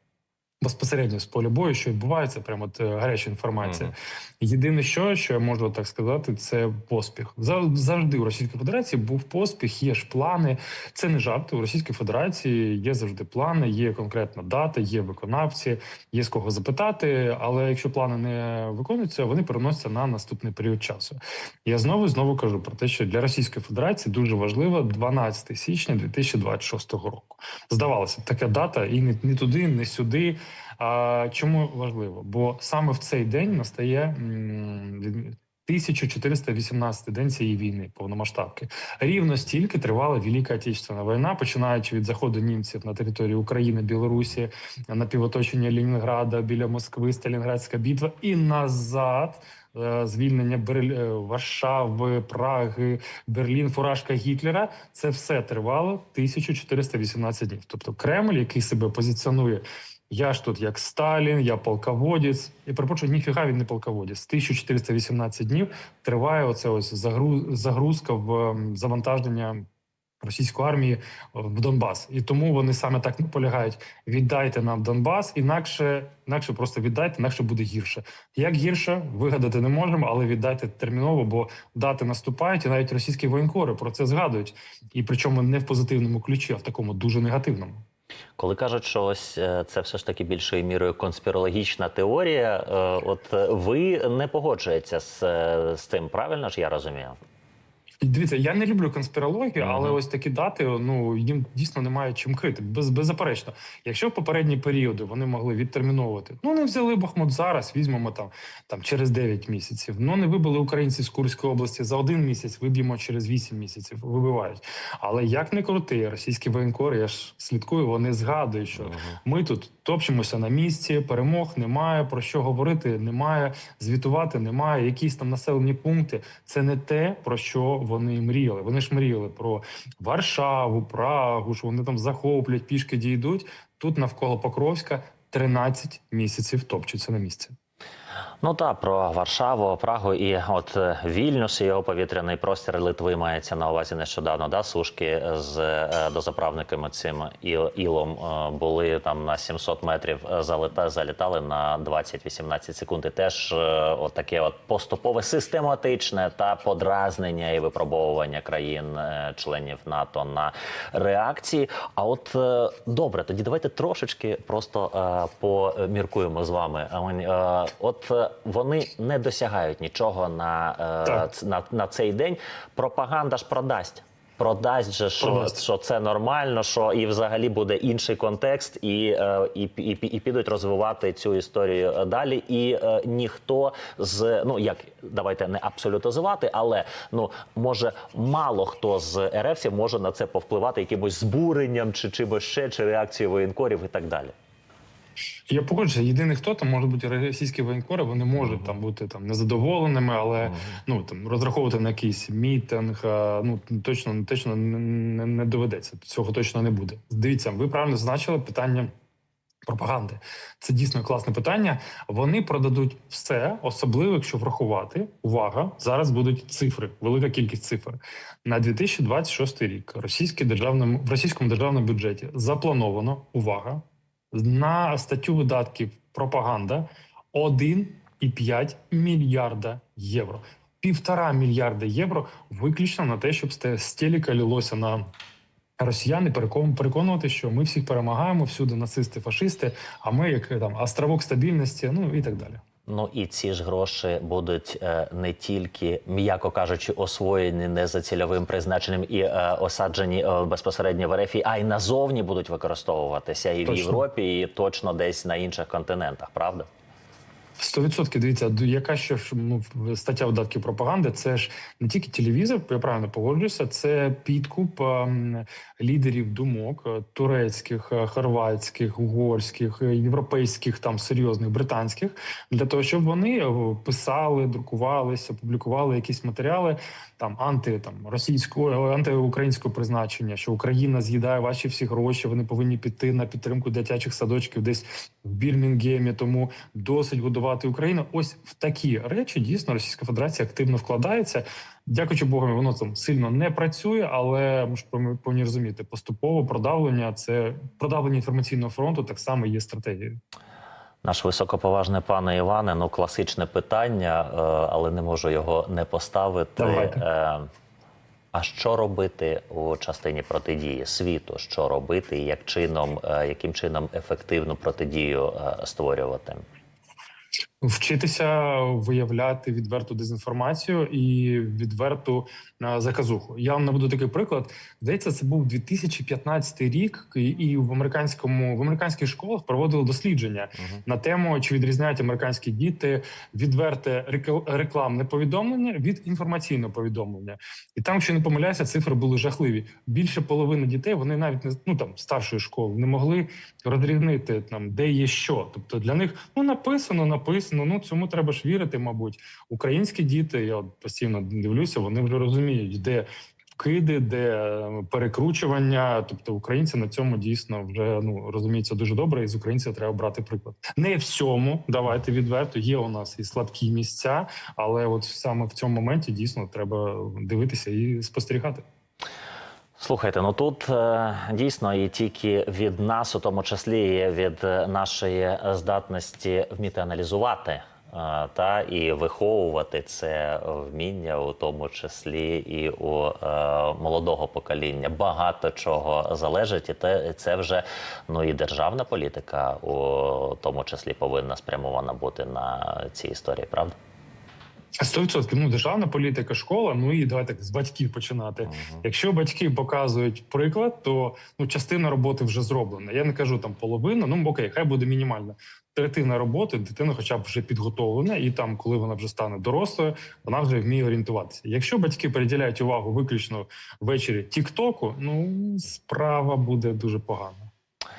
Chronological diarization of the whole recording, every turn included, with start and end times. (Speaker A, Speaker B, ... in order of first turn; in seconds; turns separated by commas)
Speaker A: 0.6-69.7, Speaker B: 3.6-3.9, Speaker A: 70.2-87.8, Speaker B: 88.4-97.2, Speaker A: 98.0-137.5, Speaker B: 99.6-100.0, Speaker B: 118.8-119.2, Speaker B: 138.4-194.3, Speaker A: 175.2-175.6, Speaker A: 195.5-208.9, Speaker B: 198.4-198.7, Speaker B: 200.4-200.8, Speaker A: 209.7-235.1, Speaker A: 235.8-242.6, Speaker B: 242.9-256.7, Speaker A: 253.6-254.0, Speaker A: 257.6-300.2, Speaker B: 301.0-307.5, Speaker A: 306.6-307.0, Speaker B: 308.3-316.4, Speaker A: 317.6-353.1, Speaker A: 353.6-368.6, Speaker B: 369.8-393.7, Speaker A: 394.8-417.5, Speaker B: 398.4-398.8